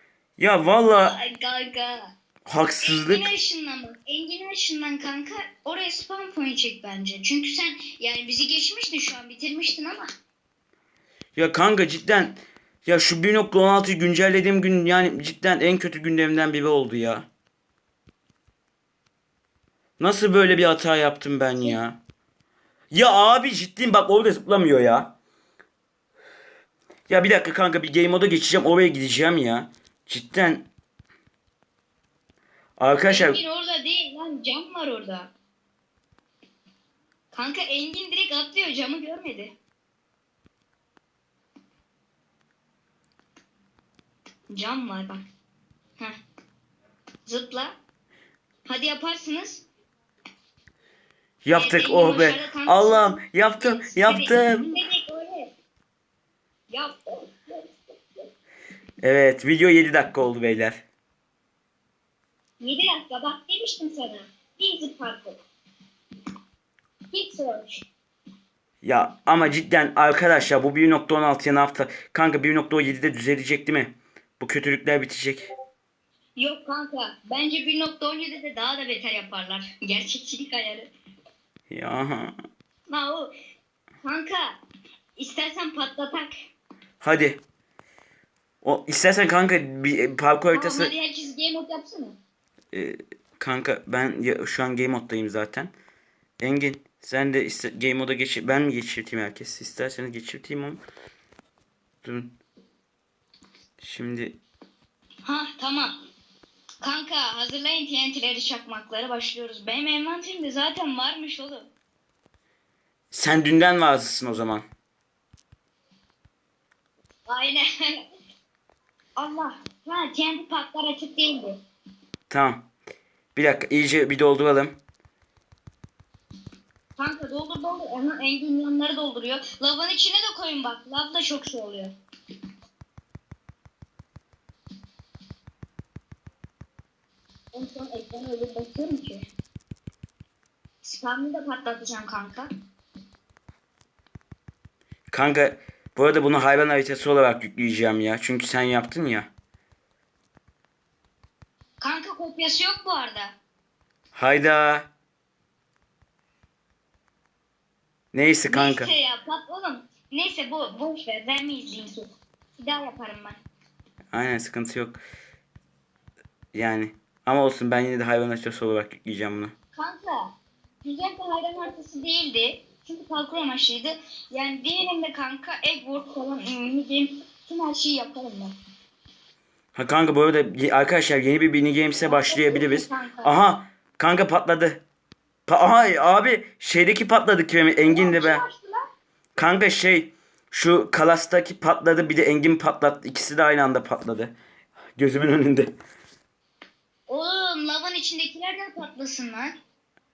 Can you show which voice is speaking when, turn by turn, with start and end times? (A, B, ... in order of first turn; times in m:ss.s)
0:00.4-0:01.2 A
0:00.9-0:02.1 B
0:02.5-0:03.3 A
0:02.8-0:10.0 B
0:11.4-0:17.3 A
0:20.0-0:22.0 A
0:22.9-0:25.1 A
0:27.1-0:30.6 A
0:32.8-0:33.4 A
0:33.0-0:35.3 B
0:37.3-0:39.5 B
0:44.5-0:45.2 B
0:47.2-0:47.8 B
0:48.6-0:49.6 B
0:51.4-0:54.8 A
0:51.5-0:55.5 B
0:56.7-0:58.2 B
0:59.0-1:00.8 A
1:02.6-1:05.4 B
1:07.1-1:07.9 B
1:08.8-1:15.4 A
1:16.4-1:20.9 B
1:21.7-1:22.3 A
1:22.9-1:23.3 B
1:24.0-1:24.6 B
1:25.2-1:26.3 B
1:27.0-1:27.4 A
1:28.6-1:30.9 A
1:30.5-1:32.2 B
1:32.7-1:35.7 A
1:36.4-1:40.8 A
1:42.0-1:42.3 A
1:43.8-1:44.4 A
1:45.2-1:46.0 B
1:46.8-1:51.7 B
1:53.1-1:54.6 A
1:57.2-1:58.0 B
1:59.2-2:01.6 B
2:02.3-2:02.6 A
2:03.3-2:04.8 A
2:07.0-2:11.9 B
2:17.5-2:19.3 B
2:20.8-2:22.4 B
2:25.1-2:29.3 A
2:31.8-2:33.4 B
2:34.1-2:34.9 A
2:38.1-2:38.9 A
2:38.4-2:43.4 B
2:44.1-2:45.0 A
2:46.5-2:49.5 A
2:49.8-2:58.5 B
2:59.8-3:04.8 A
3:02.0-3:03.4 B
3:05.5-3:08.4 A
3:07.7-3:08.8 B
3:09.4-3:14.3 A
3:15.0-3:15.7 A
3:17.1-3:19.5 B